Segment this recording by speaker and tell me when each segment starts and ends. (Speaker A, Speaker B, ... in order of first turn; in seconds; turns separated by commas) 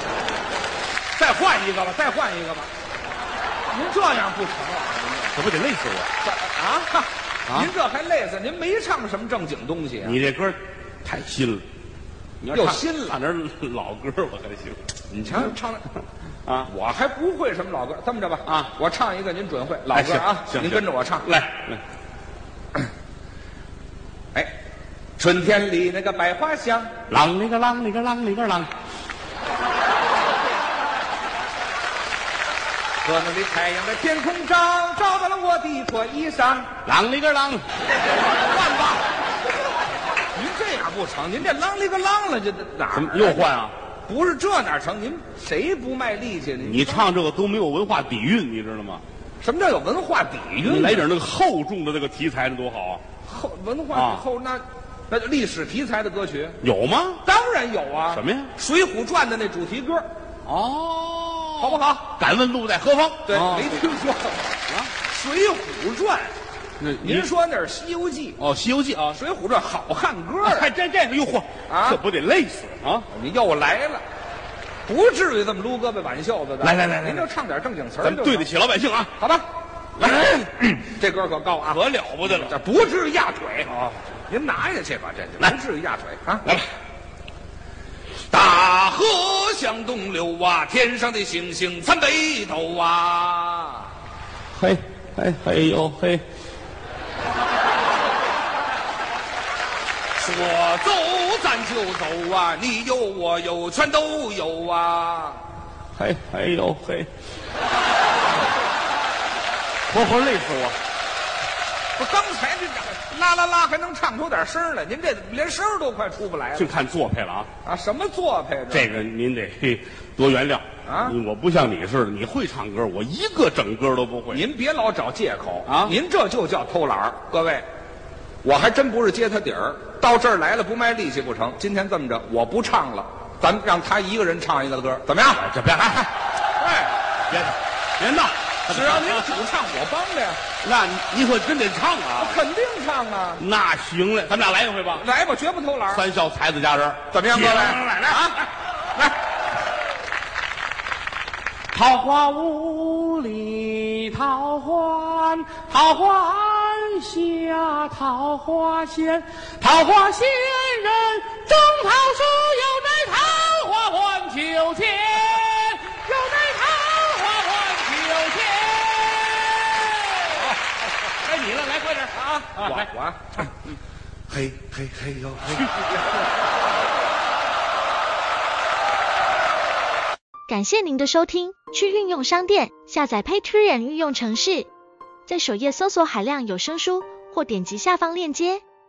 Speaker A: 1.1-2.7, Speaker A: 3.7-5.5, Speaker B: 5.3-6.1, Speaker A: 6.2-10.2, Speaker B: 10.0-11.6, Speaker B: 12.4-14.8, Speaker A: 12.5-13.2, Speaker A: 15.1-15.8, Speaker A: 16.6-21.3, Speaker B: 18.4-18.7, Speaker B: 19.9-21.8, Speaker A: 25.2-26.9, Speaker B: 27.1-28.7, Speaker A: 33.0-36.7, Speaker B: 36.8-37.6, Speaker A: 38.3-39.0, Speaker A: 40.3-43.5, Speaker B: 42.9-43.7, Speaker A: 44.0-47.1, Speaker B: 46.6-49.0, Speaker A: 49.4-51.0, Speaker B: 50.6-53.0, Speaker A: 53.2-56.6, Speaker B: 53.9-54.2, Speaker B: 56.6-57.2, Speaker A: 57.2-60.1, Speaker B: 58.1-58.5, Speaker B: 60.5-63.9, Speaker A: 61.6-62.1, Speaker A: 63.2-66.3, Speaker B: 66.8-67.3, Speaker A: 67.0-68.4, Speaker B: 68.4-69.2, Speaker A: 69.0-70.7, Speaker B: 70.4-73.1, Speaker A: 71.7-72.0, Speaker A: 73.1-74.0, Speaker A: 74.8-78.5, Speaker B: 76.6-77.2, Speaker B: 78.0-79.1, Speaker A: 79.2-79.5, Speaker B: 80.0-80.6, Speaker A: 80.6-86.5, Speaker B: 81.8-82.5, Speaker A: 88.3-93.9, Speaker B: 94.5-96.2, Speaker A: 100.2-105.4, Speaker B: 105.9-107.1, Speaker B: 109.9-110.8, Speaker A: 112.0-116.7, Speaker B: 116.5-117.5, Speaker A: 117.6-118.9, Speaker B: 118.7-124.4, Speaker A: 120.8-121.2, Speaker A: 124.3-127.7, Speaker B: 125.7-125.9, Speaker A: 128.4-135.4, Speaker B: 135.4-136.1, Speaker A: 136.6-136.9, Speaker B: 137.3-139.3, Speaker A: 138.7-140.4, Speaker B: 140.6-142.4, Speaker A: 142.2-143.4, Speaker B: 143.4-145.0, Speaker A: 144.9-146.1, Speaker B: 145.9-148.4, Speaker A: 147.1-148.3, Speaker B: 151.7-170.6, Speaker B: 171.1-172.9, Speaker A: 172.4-173.5, Speaker A: 174.3-176.0, Speaker C: 180.5-184.7, Speaker C: 185.3-188.6